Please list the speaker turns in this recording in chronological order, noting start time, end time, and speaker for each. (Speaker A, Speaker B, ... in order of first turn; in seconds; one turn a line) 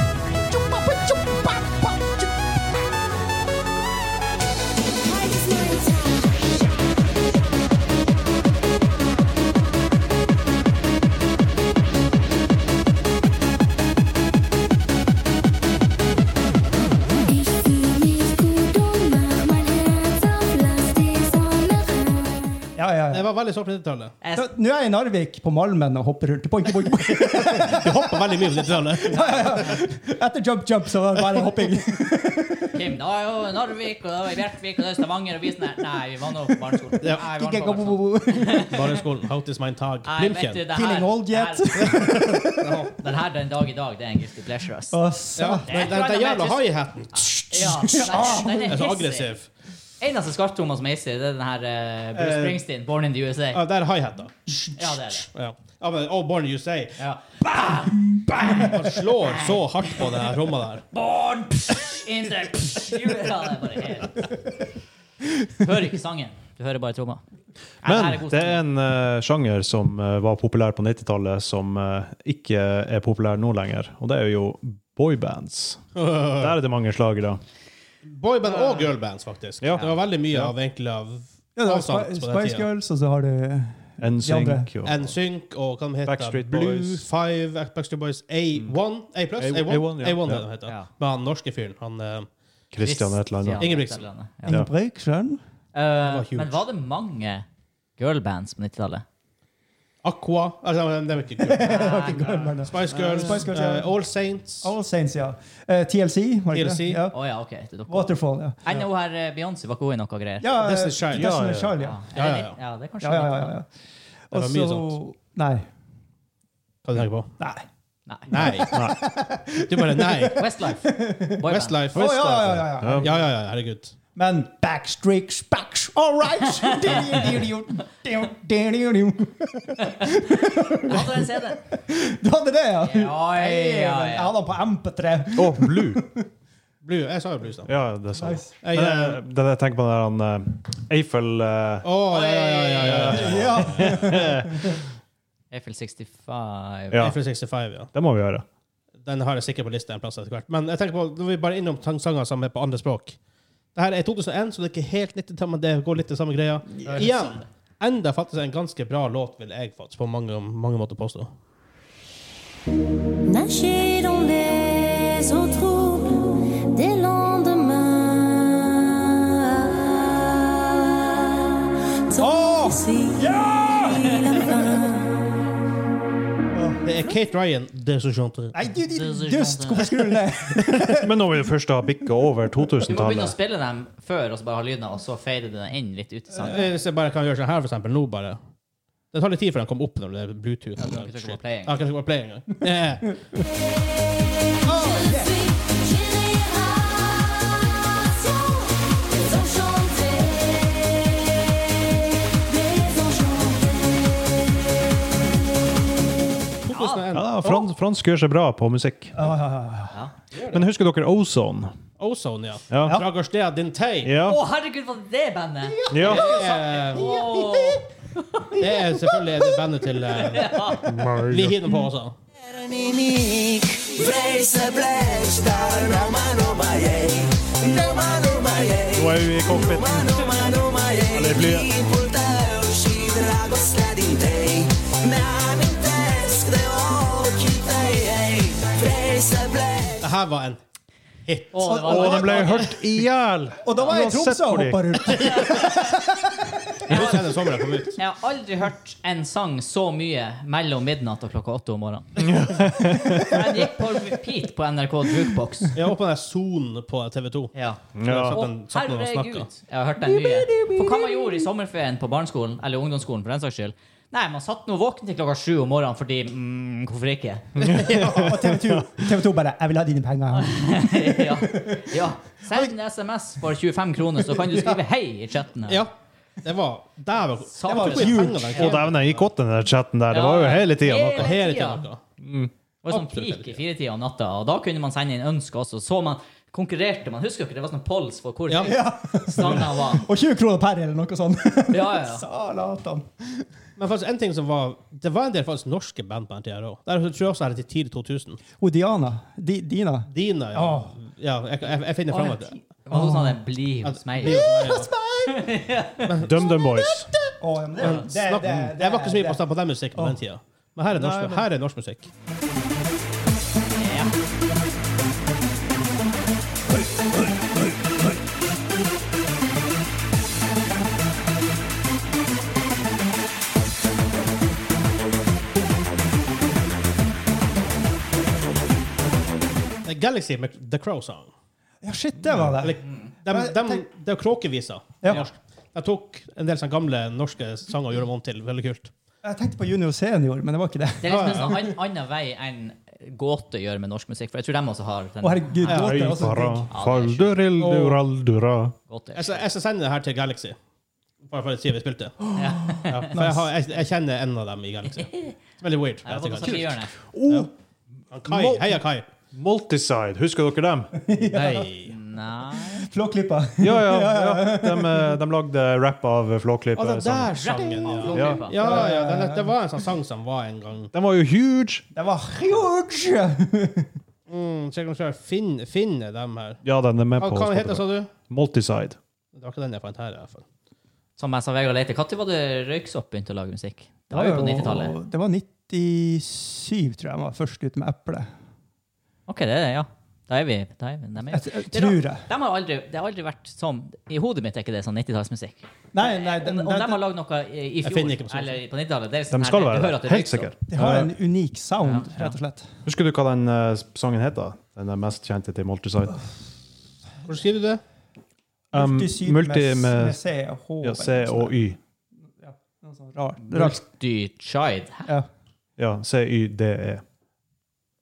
Speaker A: 0.5-2.3
Speaker B: 5.0-6.8
Speaker B: 17.2-22.7
Speaker A: 22.8-23.3
Speaker C: 23.1-24.1
Speaker D: 24.2-24.5
Speaker A: 24.4-32.7
Speaker C: 27.3-29.8
Speaker D: 32.7-38.8
Speaker A: 37.1-38.8
Speaker C: 38.5-40.7
Speaker D: 40.0-45.0
Speaker A: 40.7-42.9
Speaker A: 44.9-45.7
Speaker C: 45.4-49.5
Speaker D: 45.6-49.4
Speaker A: 47.5-48.7
Speaker D: 50.0-53.6
Speaker C: 52.2-52.6
Speaker C: 53.5-54.4
Speaker D: 54.8-55.3
Speaker C: 55.3-57.0
Speaker D: 57.0-59.6
Speaker A: 58.3-58.7
Speaker C: 58.6-60.8
Speaker D: 60.9-64.3
Speaker D: 65.6-67.2
Speaker D: 67.8-68.6
Speaker E: 67.8-77.4
Speaker C: 76.0-76.6
Speaker C: 78.0-82.7
Speaker E: 79.6-80.5
Speaker A: 81.6-84.7
Speaker E: 84.0-85.2
Speaker C: 84.8-92.3
Speaker E: 86.0-87.0
Speaker E: 89.4-90.5
Speaker E: 92.7-93.7
Speaker D: 92.8-94.6
Speaker C: 93.6-94.0
Speaker A: 94.5-95.4
Speaker D: 95.7-97.5
Speaker C: 96.0-96.6
Speaker D: 98.0-99.0
Speaker C: 100.0-104.7
Speaker A: 101.4-104.0
Speaker D: 101.6-102.5
Speaker A: 104.6-107.2
Speaker C: 106.5-107.0
Speaker D: 107.1-108.1
Speaker A: 107.9-108.6
Speaker D: 108.6-110.5
Speaker A: 110.4-112.0
Speaker C: 110.6-111.3
Speaker E: 111.1-111.8
Speaker D: 111.8-113.5
Speaker C: 112.2-112.5
Speaker A: 113.0-113.7
Speaker A: 114.3-115.7
Speaker C: 114.3-115.0
Speaker C: 116.8-117.3
Speaker A: 117.4-117.7
Speaker D: 118.1-118.6
Speaker C: 118.3-118.7
Speaker A: 118.3-123.2
Speaker E: 118.7-119.0
Speaker C: 119.7-120.4
Speaker D: 120.3-121.9
Speaker C: 121.5-122.1
Speaker E: 122.0-123.1
Speaker C: 123.0-124.0
Speaker A: 124.2-136.3
Speaker D: 129.9-131.6
Speaker D: 132.8-134.3
Speaker E: 135.4-136.0
Speaker C: 136.8-137.7
Speaker E: 137.7-141.9
Speaker A: 138.2-138.5
Speaker C: 138.6-139.2
Speaker C: 141.8-144.1
Speaker D: 142.1-143.4
Speaker E: 142.8-144.8
Speaker A: 143.1-144.8
Speaker D: 145.5-147.1
Speaker E: 146.9-147.2
Speaker C: 147.0-147.9
Speaker E: 147.9-148.4
Speaker C: 149.0-153.2
Speaker C: 153.8-161.3
Speaker D: 156.8-157.4
Speaker B: 163.2-170.9
Speaker B: 172.1-175.3
Speaker A: 172.2-174.7
Speaker A: 176.5-176.8
Speaker C: 176.8-178.6
Speaker A: 178.5-181.3
Speaker D: 178.9-180.2
Speaker E: 180.8-183.3
Speaker D: 182.8-186.6
Speaker C: 186.4-188.4
Speaker C: 189.1-193.1
Speaker D: 190.8-191.8
Speaker B: 193.8-204.7
Speaker A: 194.7-195.3
Speaker C: 206.6-207.4
Speaker D: 206.7-207.1
Speaker E: 207.1-209.2
Speaker A: 207.4-207.7
Speaker A: 209.2-210.0
Speaker C: 210.3-210.6
Speaker E: 210.5-211.7
Speaker C: 212.0-214.1
Speaker E: 212.7-213.0
Speaker E: 214.0-214.4
Speaker D: 214.2-218.6
Speaker A: 215.7-217.8
Speaker E: 215.9-216.3
Speaker C: 216.0-217.1
Speaker C: 218.6-222.2
Speaker D: 220.2-220.9
Speaker E: 220.8-221.8
Speaker F: 222.5-240.0
Speaker E: 228.9-230.5
Speaker E: 231.1-231.8
Speaker C: 240.0-240.6
Speaker C: 241.3-241.5
Speaker D: 241.5-242.8
Speaker A: 241.6-243.0
Speaker E: 241.9-245.0
Speaker A: 243.6-246.6
Speaker C: 245.1-245.6
Speaker D: 245.2-245.9
Speaker D: 246.9-247.3
Speaker C: 246.9-248.0
Speaker D: 247.9-252.1
Speaker E: 252.2-253.5
Speaker D: 253.2-255.8
Speaker C: 255.7-259.5
Speaker D: 257.6-267.5
Speaker E: 257.9-258.4
Speaker A: 260.1-261.2
Speaker E: 267.6-268.9
Speaker A: 267.6-271.9
Speaker D: 270.3-275.9
Speaker A: 272.5-272.7
Speaker A: 274.1-274.8
Speaker C: 275.7-275.9
Speaker C: 276.4-279.3
Speaker D: 277.5-278.7
Speaker A: 277.6-278.6
Speaker E: 278.6-281.3
Speaker D: 280.1-281.9
Speaker C: 281.1-282.0
Speaker E: 282.2-282.5
Speaker D: 282.8-290.1
Speaker C: 282.9-283.6
Speaker A: 288.5-293.4
Speaker D: 291.7-292.2
Speaker C: 293.8-298.4
Speaker A: 298.6-301.0
Speaker C: 300.1-302.6
Speaker D: 302.1-306.1
Speaker A: 302.9-303.4
Speaker C: 303.8-304.9
Speaker A: 304.3-305.5
Speaker C: 306.1-306.4
Speaker E: 306.2-307.1
Speaker A: 306.4-309.4
Speaker C: 307.8-312.1
Speaker E: 310.9-311.4
Speaker D: 313.8-314.1
Speaker C: 329.9-331.3
Speaker A: 331.8-333.8
Speaker E: 332.3-332.5
Speaker C: 332.6-338.9
Speaker D: 332.8-333.1
Speaker A: 339.2-341.7
Speaker D: 341.0-346.2
Speaker C: 341.1-341.6
Speaker A: 345.2-346.7
Speaker C: 345.7-346.0
Speaker E: 345.7-348.7
Speaker D: 346.7-347.4
Speaker C: 347.6-348.0
Speaker D: 348.9-349.5
Speaker C: 349.1-350.6
Speaker C: 351.2-356.7
Speaker D: 352.4-353.1
Speaker A: 353.1-353.5
Speaker D: 356.1-356.9
Speaker E: 356.1-357.5
Speaker C: 358.1-359.1
Speaker E: 358.3-358.8
Speaker E: 359.3-360.9
Speaker A: 361.0-361.7
Speaker D: 361.3-362.9
Speaker C: 361.4-361.9
Speaker A: 362.7-365.2
Speaker E: 363.6-367.3
Speaker C: 366.8-370.9
Speaker D: 367.3-368.9
Speaker E: 368.1-368.4
Speaker A: 368.5-369.5
Speaker E: 370.9-371.9
Speaker A: 371.9-373.9
Speaker C: 374.3-376.6
Speaker E: 376.6-379.0
Speaker C: 377.2-378.1
Speaker C: 379.3-380.4
Speaker D: 381.2-385.0
Speaker A: 384.1-388.3
Speaker D: 389.3-400.6
Speaker A: 391.3-392.3
Speaker A: 395.9-397.0
Speaker C: 397.8-398.6
Speaker E: 399.3-401.1
Speaker A: 400.7-402.7
Speaker D: 401.8-402.4
Speaker E: 402.9-406.2
Speaker C: 407.3-407.8
Speaker A: 408.7-411.6
Speaker E: 408.7-410.2
Speaker E: 410.8-411.8
Speaker A: 412.4-413.8
Speaker D: 413.4-415.1
Speaker E: 415.8-417.0